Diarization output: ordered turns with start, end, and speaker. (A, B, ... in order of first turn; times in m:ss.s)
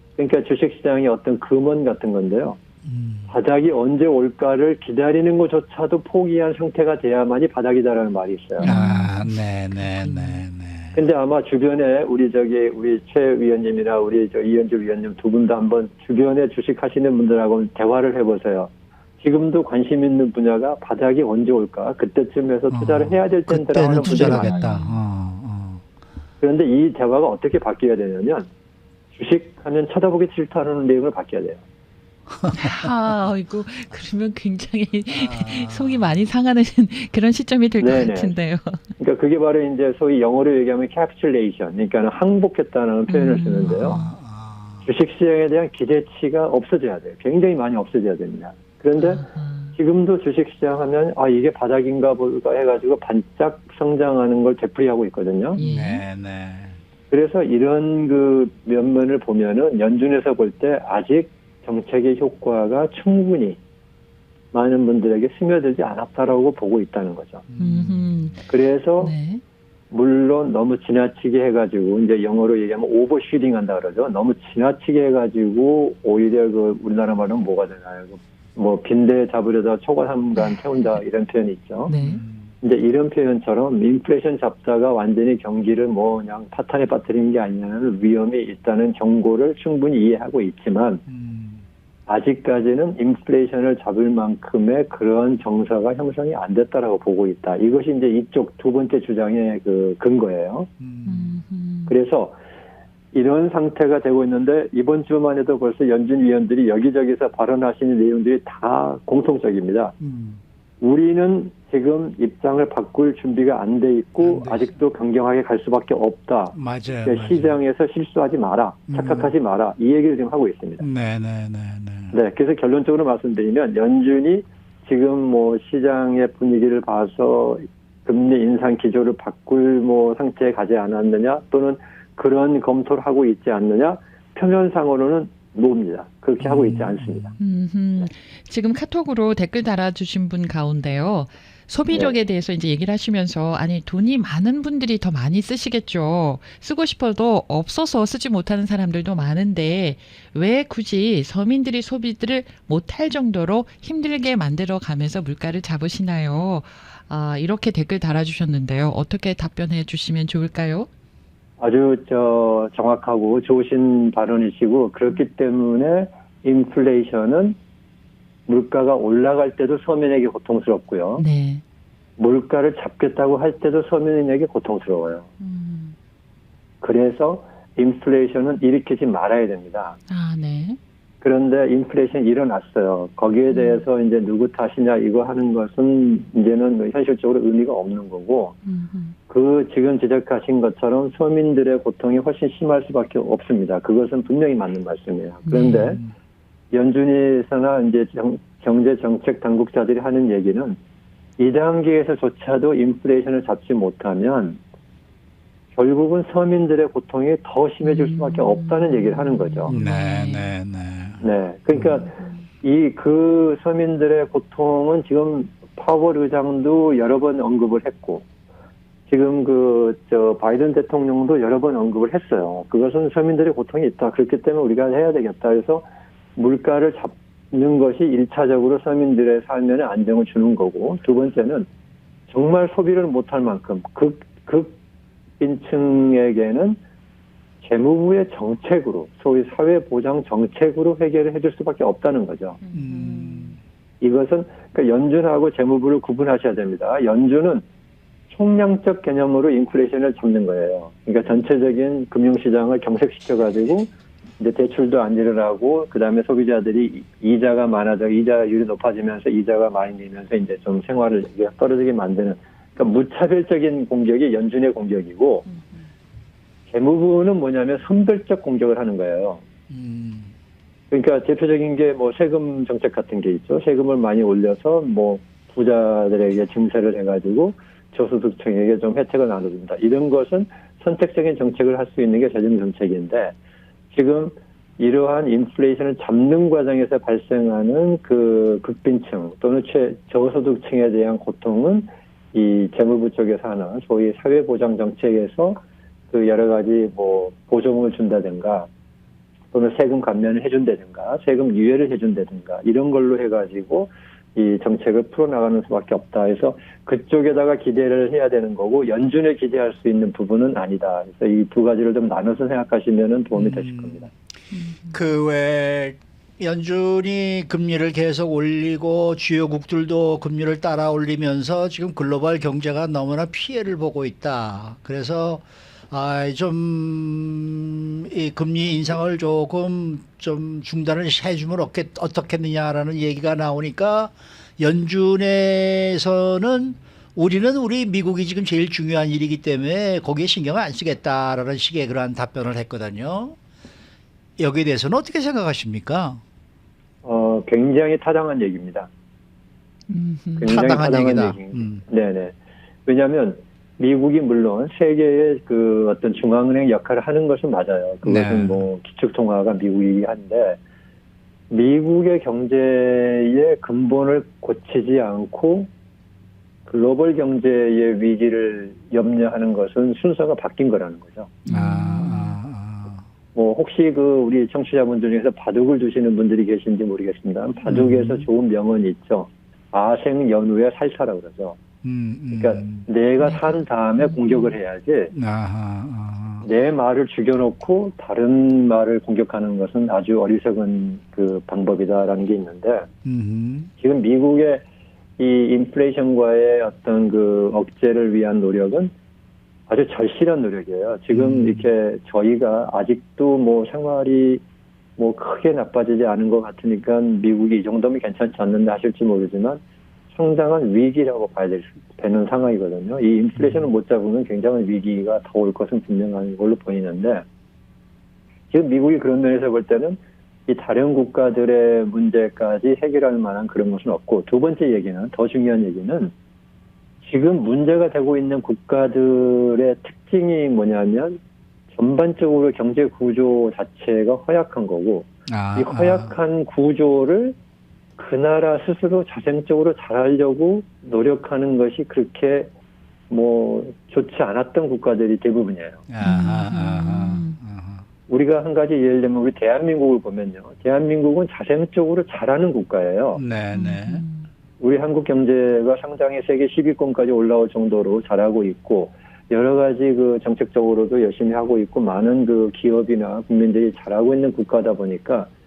0:00.2-0:02.6 A
0:02.8-0:03.3 B
0:03.3-0:08.7 A
0:08.6-0:10.4 C
0:08.6-0:11.0 B
0:10.9-0:24.7 A
0:22.7-0:25.8 B
0:24.0-0:25.0 C
0:26.4-0:28.5 A
0:29.1-0:31.6 A
0:32.5-0:38.8 C
0:35.1-0:36.1 B
0:37.8-0:38.4 A
0:39.0-0:44.0 A
0:43.1-0:44.1 C
0:43.7-0:44.9 B
0:44.8-0:55.6 A
0:49.0-0:49.7 C
0:55.6-0:56.0 C
0:55.6-0:56.8 B
0:57.1-1:03.6 A
1:04.5-1:07.4 A
1:07.5-1:08.4 B
1:07.6-1:08.4 C
1:08.5-1:09.1 A
1:09.0-1:09.4 C
1:09.9-1:21.9 A
1:21.9-1:22.2 C
1:22.0-1:22.5 B
1:22.6-1:31.0 A
1:31.1-1:31.6 B
1:32.1-1:40.7 A
1:40.8-1:41.4 B
1:41.0-1:41.9 C
1:41.9-1:42.4 A
1:43.1-1:49.9 A
1:50.0-1:50.4 B
1:50.8-2:00.8 A
1:54.2-1:54.7 B
1:56.5-1:57.6 B
1:58.9-1:59.3 B
2:00.8-2:02.2 B
2:02.1-2:17.4 A
2:16.4-2:17.3 B
2:17.4-2:40.9 C
2:21.9-2:22.2 A
2:41.6-2:47.6 A
2:48.5-2:51.2 A
2:51.2-2:51.6 C
2:52.2-2:55.3 A
2:55.4-2:55.9 C
2:56.8-3:00.0 A
3:00.1-3:00.8 C
3:01.2-3:08.6 A
3:03.5-3:03.8 C
3:08.6-3:09.2 C
3:09.3-3:16.0 A
3:15.4-3:16.0 C
3:16.7-3:20.8 A
3:21.4-3:24.6 A
3:25.7-3:29.7 A
3:27.8-3:30.5 C
3:29.7-3:32.1 B
3:31.2-3:38.2 A
3:39.1-3:51.7 A
3:52.3-3:54.8 A
3:55.4-3:56.8 A
3:57.6-4:02.6 A
4:02.6-4:03.6 C
4:02.7-4:03.6 B
4:04.0-4:07.6 A
4:08.3-4:25.4 A
4:26.7-4:29.4 A
4:29.7-4:30.3 B
4:30.9-4:43.3 A
4:43.9-4:58.7 A
4:59.5-5:14.1 A
5:13.3-5:14.0 B
5:14.5-5:15.0 C
5:14.9-5:43.3 B
5:44.4-5:46.2 B
5:47.0-5:48.9 A
5:49.9-5:50.6 C
5:50.4-5:52.3 A
5:50.4-5:51.8 B
5:52.8-6:00.6 A
5:58.0-5:58.6 B
6:01.5-6:05.7 A
6:06.6-6:11.3 A
6:11.4-6:12.4 C
6:11.5-6:13.0 B
6:13.3-6:21.6 A
6:17.6-6:18.2 B
6:21.8-6:22.9 B
6:22.3-6:25.1 A
6:23.2-6:24.5 C
6:25.1-6:26.5 B
6:26.4-6:32.9 A
6:33.0-6:33.7 B
6:33.8-6:34.6 A
6:35.2-6:38.9 A
6:39.7-6:44.4 A
6:41.1-6:41.7 B
6:45.0-6:57.2 A
6:53.3-6:53.7 B
6:58.5-7:06.1 A
7:07.0-7:11.2 A
7:11.7-7:17.4 A
7:15.3-7:16.1 B
7:18.0-7:22.5 A
7:23.1-7:25.8 A
7:25.9-7:27.8 B
7:26.0-7:27.4 C
7:28.1-7:33.2 A
7:33.1-7:34.0 B
7:33.5-7:34.3 C
7:34.6-7:45.3 A